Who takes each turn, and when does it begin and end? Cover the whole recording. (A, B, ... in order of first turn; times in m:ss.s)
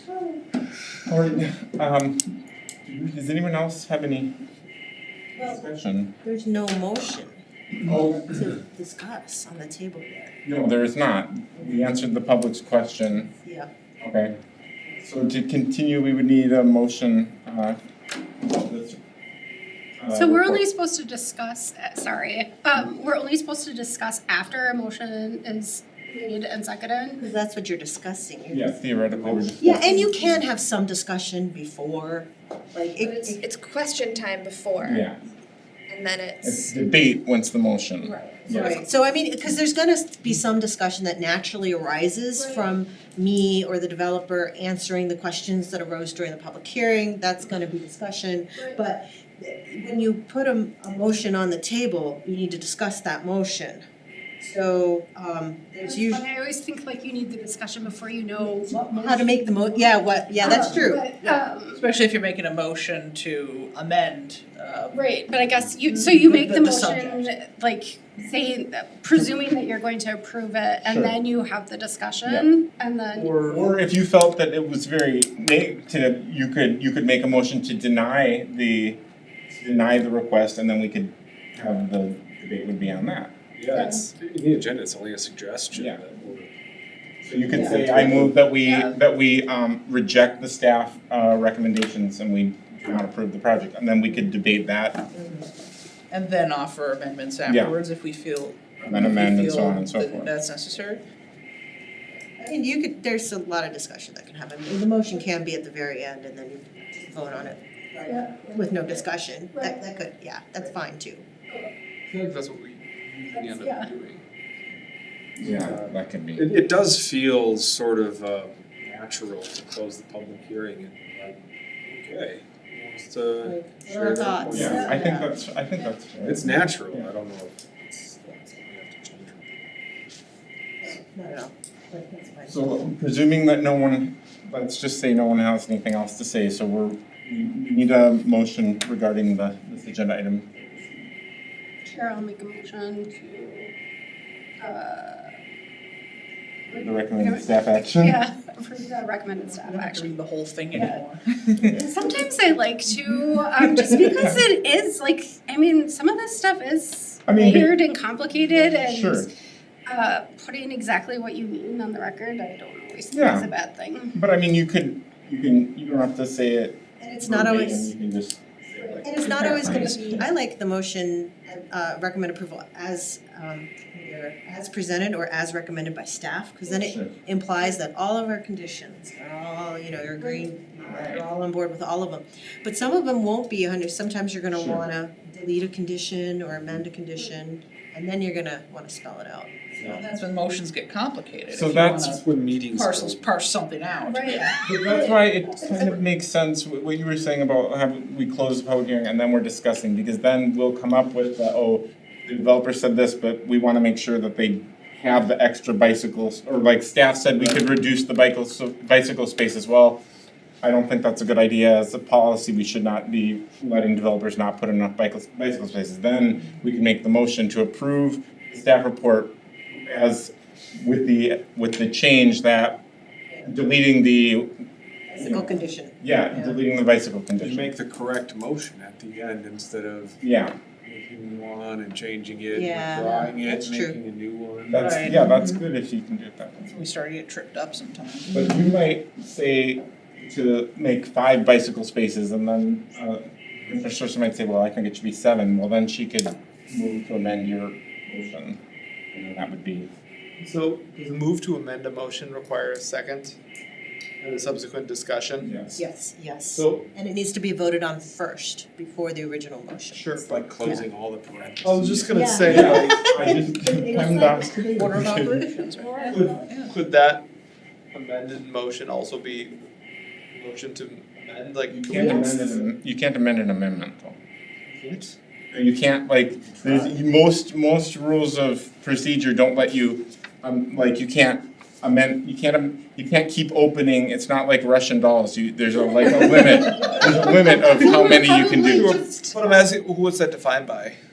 0:01.0-0:02.3 A
0:02.8-0:04.3 A
0:05.4-0:06.1 A
0:06.2-0:10.3 B
0:07.8-0:08.4 A
0:10.4-0:13.3 A
0:13.3-0:13.7 B
0:14.0-0:14.4 A
0:15.0-0:17.8 A
0:18.4-0:19.0 A
0:20.0-0:20.6 A
0:20.1-0:27.2 C
0:27.2-0:28.7 B
0:28.5-0:30.2 A
0:29.1-0:30.4 D
0:29.6-0:33.4 B
0:33.0-0:35.1 E
0:34.9-0:35.2 A
0:35.9-0:36.7 E
0:36.4-0:38.8 A
0:38.4-0:53.8 B
0:54.4-0:56.2 B
0:55.8-0:58.9 C
0:58.8-1:01.0 B
1:00.4-1:01.8 C
1:01.2-1:05.0 F
1:04.9-1:13.4 C
1:05.9-1:07.3 F
1:10.8-1:11.2 A
1:13.1-1:13.7 G
1:13.4-1:23.4 A
1:23.6-1:26.5 D
1:23.7-1:24.0 C
1:25.7-1:26.0 A
1:27.2-1:35.1 A
1:27.4-1:28.6 D
1:28.7-1:28.9 F
1:35.1-1:35.4 B
1:36.1-1:41.0 F
1:37.4-1:37.8 A
1:38.8-1:40.3 A
1:42.3-1:51.2 B
1:48.0-1:48.7 C
1:52.1-1:54.2 G
1:53.3-1:53.9 C
1:55.4-1:56.5 A
1:55.4-2:05.2 D
2:03.4-2:05.0 B
2:04.6-2:07.1 A
2:04.7-2:05.2 C
2:06.2-2:09.5 D
2:10.8-2:12.8 B
2:12.5-2:21.1 A
2:21.8-2:23.7 C
2:24.6-2:25.4 C
2:26.7-2:30.1 C
2:26.7-2:28.2 A
2:29.6-2:31.7 F
2:30.7-2:31.0 C
2:31.6-2:31.9 A
2:31.7-2:39.3 C
2:37.3-2:37.7 A
2:38.9-2:39.3 A
2:39.9-2:44.2 C
2:43.1-2:43.5 A
2:44.1-2:50.2 A
2:47.0-2:47.9 B
2:48.8-2:50.1 C
2:49.0-3:10.2 B
2:56.6-2:57.1 A
3:00.8-3:01.3 A
3:04.5-3:04.8 A
3:10.0-3:14.8 F
3:11.5-3:12.2 A
3:12.0-3:13.3 D
3:14.0-3:15.9 C
3:14.6-3:30.0 A
3:30.6-3:42.8 A
3:43.4-3:47.7 A
3:45.1-3:46.6 B
3:47.4-3:50.2 D
3:50.2-3:50.6 A
3:50.8-3:55.0 D
3:52.5-3:54.0 B
3:54.7-3:56.8 A
3:54.8-3:55.2 F
3:55.0-3:55.6 B
3:56.7-3:58.3 F
3:58.3-4:08.6 A
3:58.3-3:58.6 B
4:09.1-4:09.9 A
4:10.4-4:13.4 G
4:14.2-4:15.5 G
4:15.4-4:15.8 A
4:15.7-4:20.8 B
4:16.5-4:16.8 G
4:19.9-4:20.4 G
4:20.2-4:22.2 D
4:21.6-4:23.5 G
4:22.1-4:24.9 B
4:22.5-4:25.4 A
4:24.7-4:26.7 F
4:26.1-4:27.2 G
4:27.9-4:29.6 G
4:30.3-4:32.6 G
4:31.7-4:34.2 A
4:31.9-4:32.3 B
4:34.7-4:35.1 G
4:35.5-4:48.9 A
4:36.5-4:36.9 G
4:47.5-4:51.0 G